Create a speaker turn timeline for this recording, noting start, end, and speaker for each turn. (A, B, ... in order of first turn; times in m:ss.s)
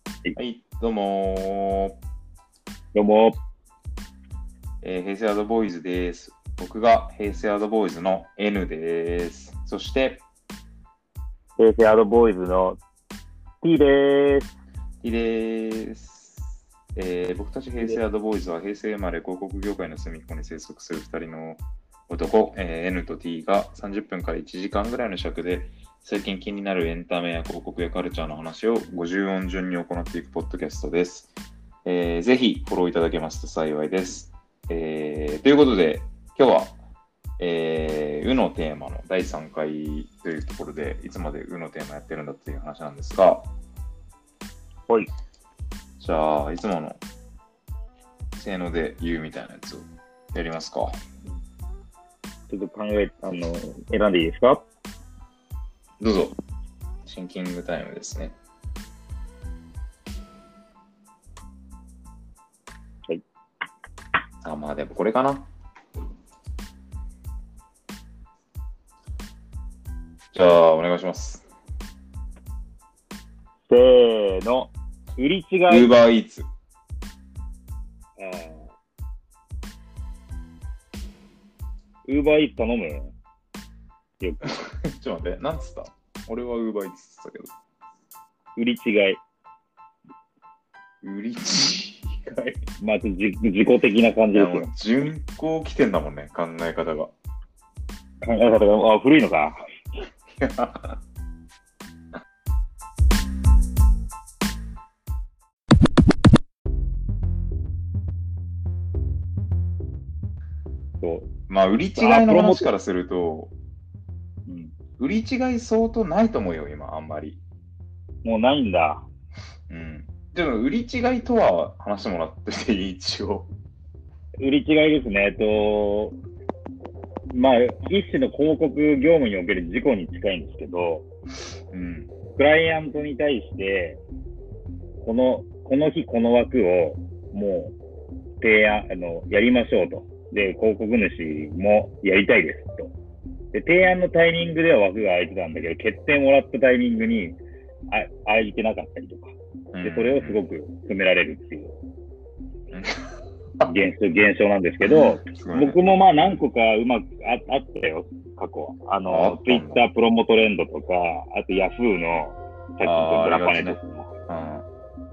0:00.4-0:02.0 A
0:02.9-0:03.4 B
0:04.8-0:10.2 A
0:11.6-0:12.8 B
0:13.6-0:14.5 B
0:15.0-0:31.3 A
0:31.8-0:36.8 A
0:37.4-0:43.5 A
0:46.0-0:47.0 A
0:48.4-0:51.0 A
0:52.5-0:54.7 B
0:56.0-0:56.4 A
0:57.0-0:58.4 A
1:04.4-1:05.5 A
1:10.3-1:11.4 A
1:13.7-1:15.9 B
1:15.7-1:16.5 A
1:18.2-1:18.7 B
1:22.1-1:23.1 B
1:24.2-1:24.6 B
1:24.4-1:27.5 A
1:28.6-1:29.2 B
1:31.0-1:32.7 A
1:32.8-1:34.7 B
1:34.3-1:37.1 A
1:38.2-1:39.6 B
1:40.4-1:41.0 A
1:51.0-1:51.3 B
1:51.5-1:53.5 A
1:52.0-1:52.7 B
1:54.5-1:54.8 B
1:55.0-1:57.4 A
1:58.2-1:59.1 B
1:59.7-2:03.5 A
2:04.4-2:06.2 B
2:07.3-2:11.1 B
2:11.7-2:12.1 A
2:12.4-2:14.0 B
2:15.0-2:17.7 B
2:18.4-2:22.9 B
2:23.5-2:27.4 B
2:27.9-2:31.8 B
2:29.7-2:30.4 A
2:32.7-2:33.0 A
2:33.7-2:44.1 B
2:34.8-2:36.4 A
2:39.1-2:39.8 A
2:42.8-2:44.7 A